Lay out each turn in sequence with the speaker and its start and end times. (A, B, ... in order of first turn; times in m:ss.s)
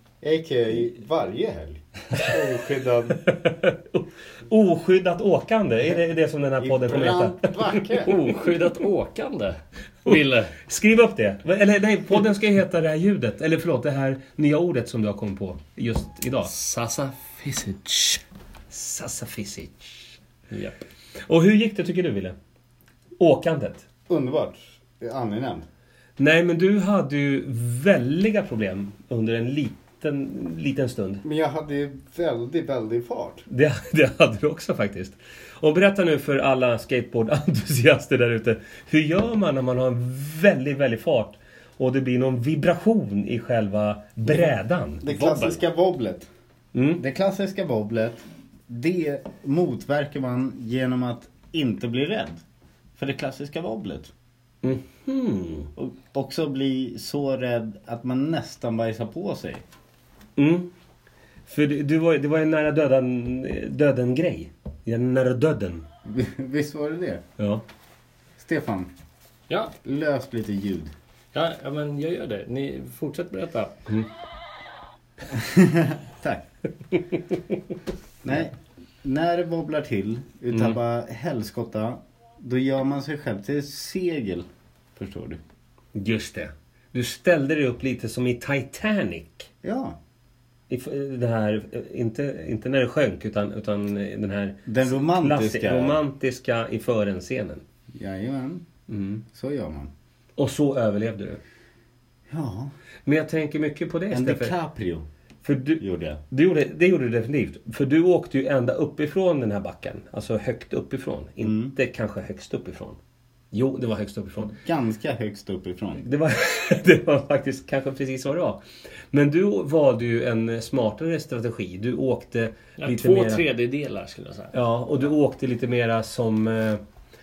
0:00.2-0:03.2 A
0:03.2-0:07.7 B
0:06.6-0:08.1 A
0:08.0-0:10.6 C
0:10.0-0:16.5 B
0:16.5-0:18.2 C
0:18.7-0:20.1 B
0:20.5-0:20.8 C
0:21.2-0:22.4 B
0:23.2-0:23.9 B
0:24.1-0:25.7 A
0:26.2-0:31.2 B
0:31.2-0:33.4 A
0:33.5-0:45.0 B
0:45.0-0:46.3 A
0:45.0-0:45.6 C
0:46.7-0:47.0 B
0:47.0-0:52.4 A
0:53.0-0:54.1 A
0:54.6-0:55.7 B
0:55.8-0:59.6 A
1:00.4-1:00.7 B
1:01.5-1:05.9 B
1:06.0-1:07.2 A
1:07.4-1:07.6 B
1:08.4-1:08.9 A
1:09.5-1:09.7 C
1:09.8-1:10.9 A
1:11.3-1:13.7 C
1:15.3-1:16.4 A
1:18.2-1:25.4 A
1:25.9-1:29.5 B
1:29.6-1:30.0 A
1:30.7-1:37.6 B
1:34.6-1:36.0 A
1:37.9-1:39.9 A
1:38.9-1:39.1 B
1:40.4-1:41.4 B
1:42.3-1:42.7 A
1:43.0-1:44.5 B
1:44.1-1:45.1 A
1:45.4-1:53.0 B
1:45.8-1:46.2 A
1:51.4-1:51.7 A
1:53.5-1:54.6 B
1:54.6-1:56.0 A
1:56.0-2:03.4 B
2:02.8-2:04.5 C
2:04.5-2:06.8 B